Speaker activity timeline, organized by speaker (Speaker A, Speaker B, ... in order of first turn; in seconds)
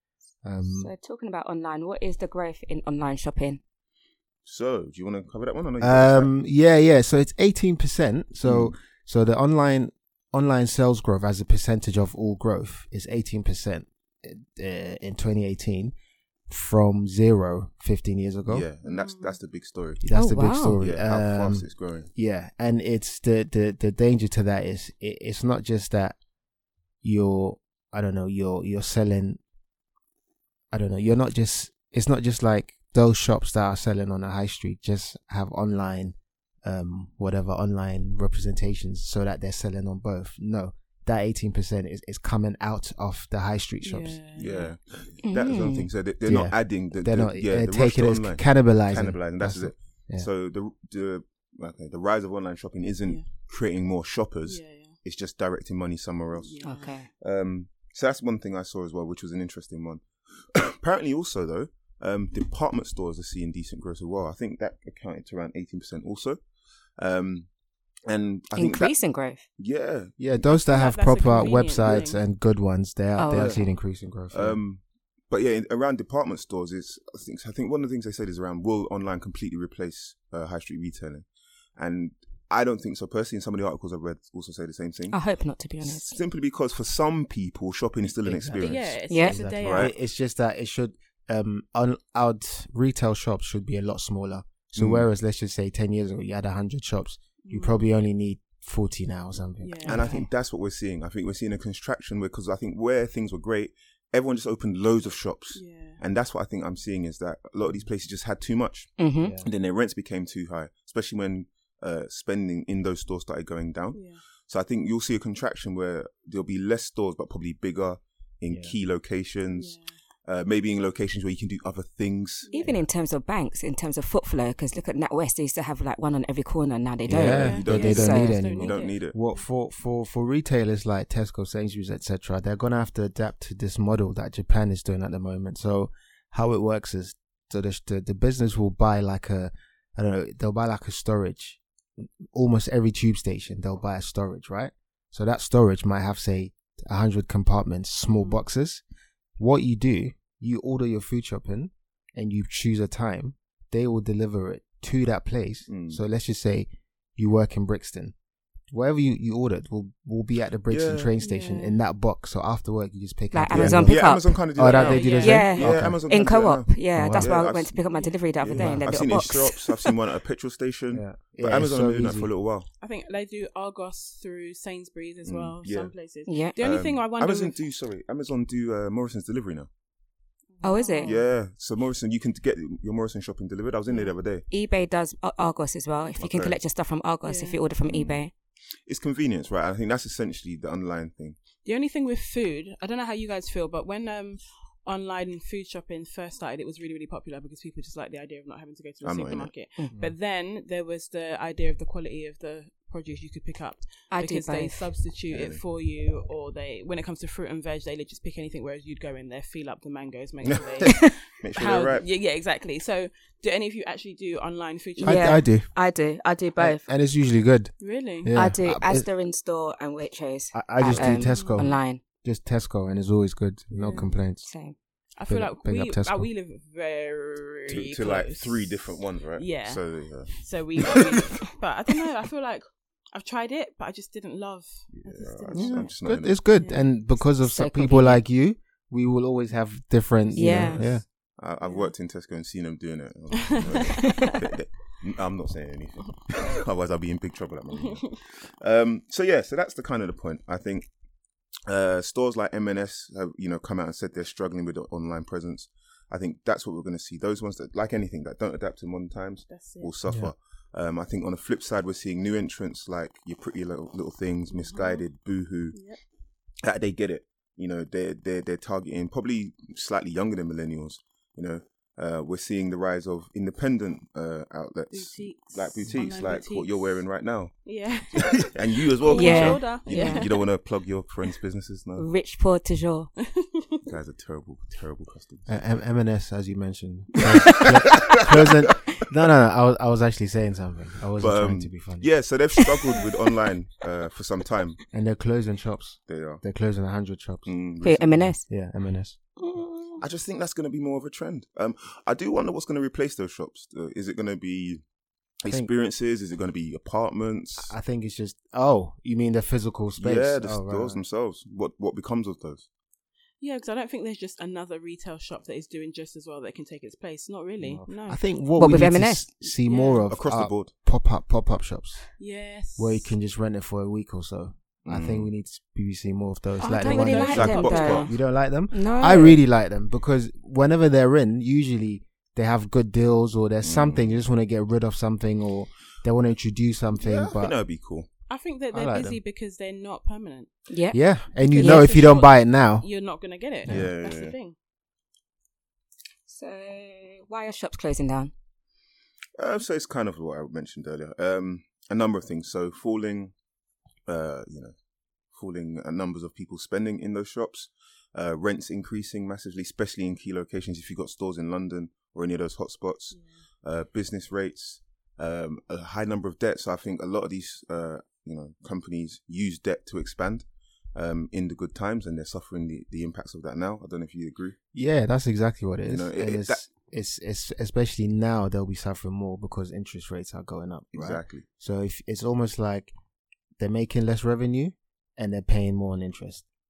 Speaker A: 0.4-0.9, 5.8-15.9, 16.5-18.7, 20.0-26.2, 27.0-29.4, 30.7-44.2, 46.2-50.3, 70.2-74.6, 88.1-100.1, 109.2-109.5, 118.5-118.8, 127.1-148.8, 149.4-158.1, 158.7-166.0, 166.9-167.4, 168.6-168.9, 170.9-172.3, 215.0-215.7, 216.6-219.1, 220.5-224.5, 225.3-226.3, 235.6-241.1, 260.1-260.3, 285.5-292.1, 294.9-297.5, 298.5-299.2, 307.6-311.0, 317.6-322.1, 322.8-337.6, 338.7-339.2, 340.9-342.9, 343.6-343.9, 374.7-382.9, 383.6-386.4
Speaker B: 0.7-3.6, 20.1-20.8, 45.2-45.9, 56.6-57.1, 68.5-69.5, 73.2-73.6, 85.1-86.2, 89.1-89.4, 99.9-100.2, 109.0-109.3, 122.5-128.4, 163.3-169.9, 176.3-176.6, 180.6-181.2, 184.5-188.3, 204.1-204.8, 215.0-216.9, 218.3-222.0, 224.4-224.8, 237.4-238.2, 240.3-240.8, 244.0-244.3, 279.1-280.3, 282.0-283.1, 297.8-298.5, 299.4-300.0, 318.6-319.3, 326.6-328.1, 328.7-329.4, 340.7-341.0, 341.6-341.9, 346.3-348.3
Speaker C: 4.5-6.3, 8.4-8.7, 18.5-20.1, 20.8-22.1, 44.4-66.4, 67.0-67.5, 68.1-69.0, 69.6-70.2, 73.3-73.7, 74.3-81.3, 81.8-85.2, 85.8-89.9, 94.8-95.1, 99.9-122.5, 127.1-129.2, 155.7-156.0, 160.7-161.1, 163.5-167.8, 168.4-172.7, 175.2-175.9, 176.6-179.7, 181.0-184.4, 186.2-186.6, 187.9-188.2, 188.9-191.4, 199.0-199.5, 205.3-205.6, 210.4-212.1, 227.7-231.5, 234.9-236.4, 240.4-250.9, 251.7-265.8, 266.6-277.6, 278.2-282.1, 283.9-285.5, 287.6-288.5, 291.2-294.8, 296.1-296.4, 297.4-298.3, 300.0-304.8, 305.4-307.7, 310.0-312.7, 320.1-320.7, 324.9-325.3, 327.3-328.1, 333.6-334.1, 337.0-338.1, 343.7-344.4, 349.4-353.3, 354.1-354.7, 355.3-374.6, 375.9-376.6, 380.9-381.4
Speaker D: 18.8-19.4, 43.8-44.8, 54.5-55.0, 56.3-56.9, 70.5-72.2, 88.6-89.9, 97.4-97.8, 99.6-100.2, 105.5-106.0, 113.9-114.2, 119.5-119.9, 122.5-122.7, 127.3-129.4, 148.1-148.4, 161.2-161.8, 164.7-165.6, 167.9-168.2, 172.8-177.6, 180.6-181.3, 183.9-184.1, 187.2-187.6, 191.6-215.4, 217.8-218.3, 221.2-221.7, 223.7-224.1, 225.2-236.0, 236.5-236.9, 241.6-241.9, 243.4-244.3, 247.8-248.1, 259.5-259.9, 264.5-265.1, 265.7-266.0, 274.9-277.0, 277.6-280.5, 283.2-283.9, 313.4-318.3, 319.6-320.1, 322.2-323.1, 326.7-328.1, 338.3-340.5, 341.4-344.6, 363.1-363.4